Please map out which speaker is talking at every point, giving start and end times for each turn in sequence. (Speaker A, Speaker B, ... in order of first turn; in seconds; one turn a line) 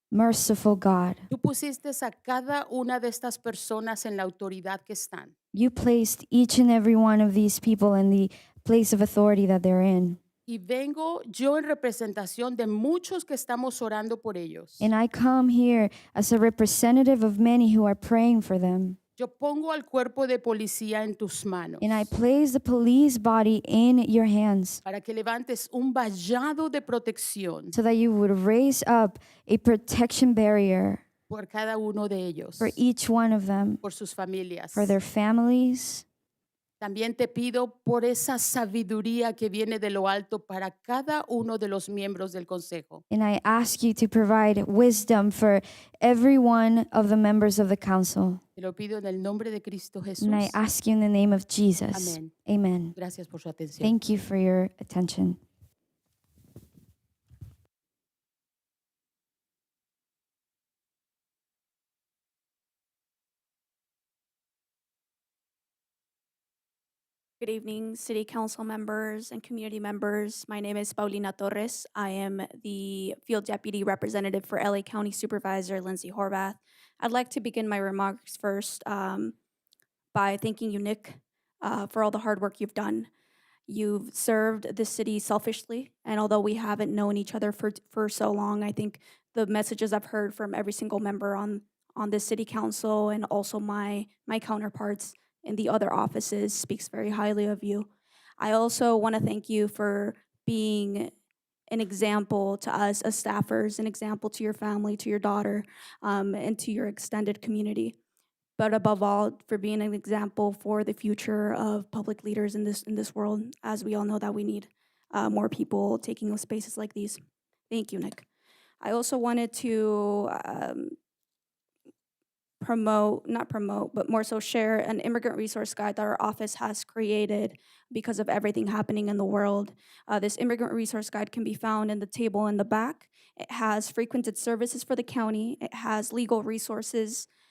Speaker A: 0.1-1.3
Speaker B: 1.3-5.3
Speaker A: 5.5-10.2
Speaker B: 10.5-14.9
Speaker A: 14.8-19.0
Speaker B: 19.2-22.1
Speaker A: 21.8-24.8
Speaker B: 24.9-27.8
Speaker A: 27.7-31.0
Speaker B: 31.3-32.8
Speaker A: 32.6-33.8
Speaker B: 33.8-35.0
Speaker A: 34.8-36.0
Speaker B: 36.8-43.0
Speaker A: 43.1-48.4
Speaker B: 48.6-50.6
Speaker A: 50.2-53.0
Speaker B: 51.9-52.3
Speaker B: 53.0-54.0
Speaker A: 53.8-55.4
Speaker C: 67.4-79.3
Speaker C: 80.1-83.1
Speaker C: 83.7-97.9
Speaker C: 98.4-101.1
Speaker C: 101.7-108.0
Speaker C: 108.6-117.2
Speaker C: 117.7-118.2
Speaker C: 118.8-121.0
Speaker C: 122.6-137.3